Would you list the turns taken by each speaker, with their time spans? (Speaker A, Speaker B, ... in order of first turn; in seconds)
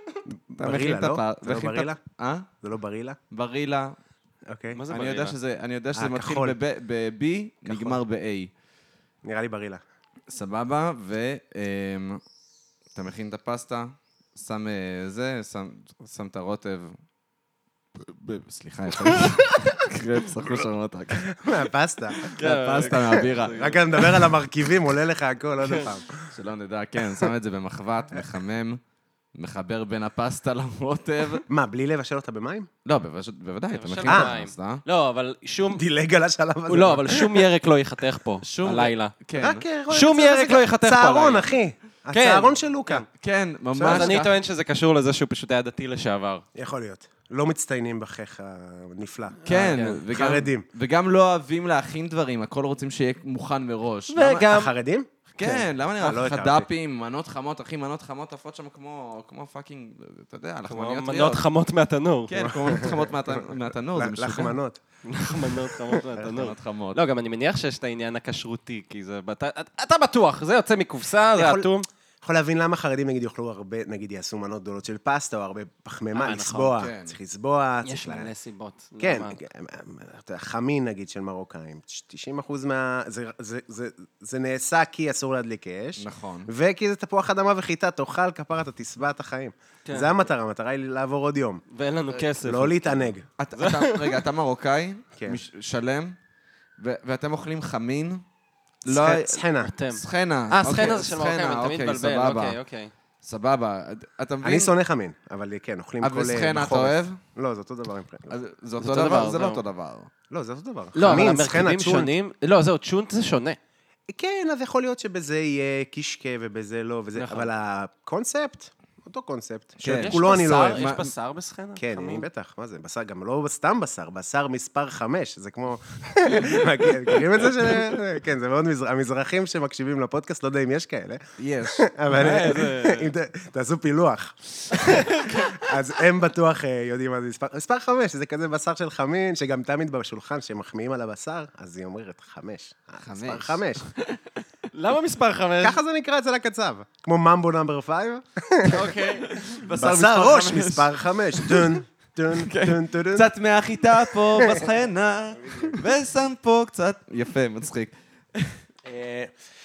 Speaker A: 0.3-2.0, 2.6-3.2, 4.5-4.8, 5.9-6.6, 7.6-8.0, 9.2-9.8, 21.3-22.2, 22.9-26.3, 31.5-32.7, 35.7-37.5, 39.4-43.0, 43.7-44.2, 46.5-49.4, 50.1-50.6, 54.4-56.7, 62.4-64.8, 71.3-78.3, 79.0-91.6, 92.4-93.2, 98.8-99.7, 104.4-108.3, 110.3-112.1, 114.1-120.8, 121.8-143.8, 145.6-148.9, 149.8-153.3, 154.4-154.7, 155.4-155.8, 158.8-159.3
Speaker B: 0.6-2.5, 3.3-4.0, 4.9-8.5, 10.3-12.2, 12.9-17.0, 18.0-21.6, 22.2-24.1, 26.3-28.8, 29.3-31.4, 32.8-34.8, 38.4-39.6, 43.2-44.4, 49.5-54.4, 55.3-61.4, 62.3-64.5, 66.2-67.0, 76.8-77.2, 86.0-86.5, 93.4-96.1, 96.8-98.2, 98.8-102.6, 103.2-104.7, 106.0-107.2, 108.3-110.1, 119.8-121.1, 131.4-132.9, 143.0-143.9, 149.2-151.8, 152.3-158.6
Speaker C: 4.7-5.3, 22.3-23.8, 25.6-25.9, 33.7-35.8, 36.7-39.1, 39.9-41.5, 42.1-43.0, 43.8-46.4, 49.4-50.0, 54.1-54.7, 60.7-62.9, 65.0-71.8, 76.1-76.8, 77.8-79.4, 89.8-90.1, 91.7-94.2, 99.6-102.9, 108.8-109.6, 110.9-113.6, 117.1-117.5, 119.9-122.2, 132.2-133.0, 134.7-135.6, 144.7-145.8, 148.6-149.5